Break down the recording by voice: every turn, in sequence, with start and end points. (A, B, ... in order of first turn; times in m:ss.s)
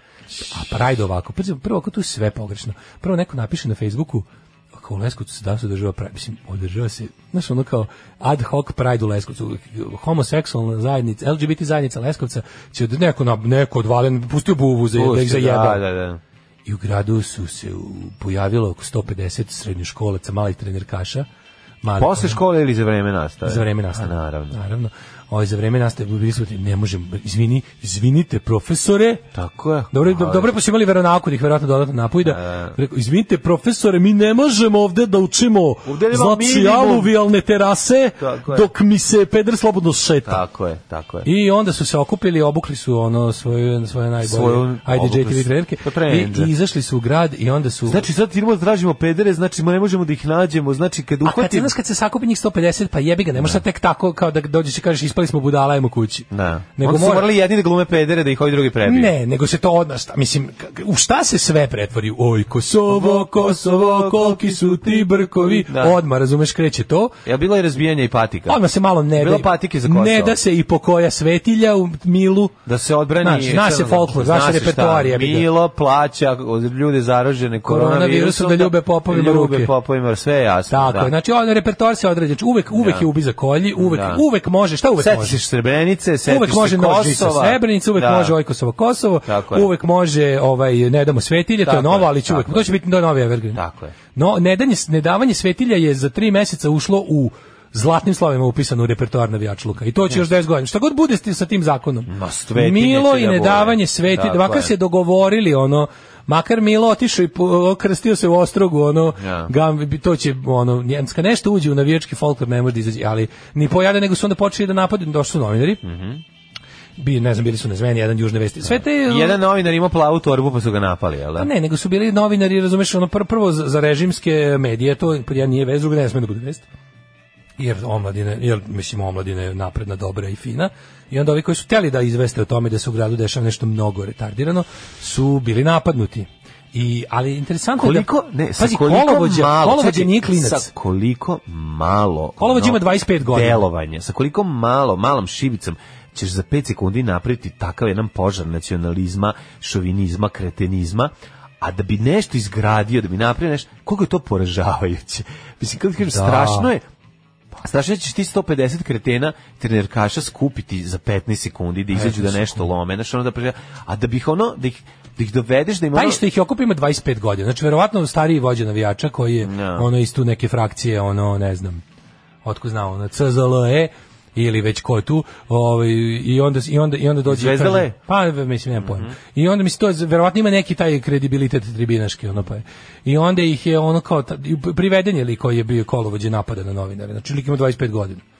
0:00.5-0:15.8 A
0:14.9-0:16.2 B
0:16.7-0:21.3 A
0:21.8-0:22.4 A
0:22.0-0:24.6 B
0:23.4-0:29.2 A
0:29.3-0:30.6 B
0:29.9-0:40.4 A
0:32.2-0:32.8 B
0:35.8-0:37.1 B
0:38.2-0:38.7 B
0:40.3-0:41.3 B
0:41.2-0:48.1 A
0:44.2-0:46.5 B
0:47.9-0:51.7 B
0:51.2-0:57.3 A
0:53.4-0:53.6 B
0:56.3-0:59.1 B
0:58.8-1:07.2 A
1:02.9-1:06.0 B
1:07.2-1:08.6 B
1:08.5-1:12.6 A
1:09.1-1:10.4 B
1:12.7-1:21.1 B
1:13.2-1:15.5 A
1:17.6-1:19.7 A
1:20.7-1:25.4 A
1:22.7-1:23.1 B
1:23.8-1:24.2 B
1:25.0-1:28.4 B
1:26.2-1:33.6 A
1:29.3-1:29.7 B
1:31.6-1:32.7 B
1:33.5-1:33.9 B
1:34.2-1:55.8 A
1:42.1-1:44.7 B
1:49.2-1:49.5 B
1:55.8-1:56.2 B
1:57.0-1:59.4 A
1:58.7-2:01.5 B
2:01.4-2:06.7 A
2:07.6-2:20.7 A
2:17.8-2:36.8 B
2:22.4-2:23.6 A
2:36.1-2:36.7 A
2:37.6-2:46.2 B
2:41.9-2:42.7 A
2:45.9-2:51.8 A
2:49.4-2:49.9 B
2:52.4-3:08.2 A
2:57.2-2:57.9 B
2:58.8-2:59.2 B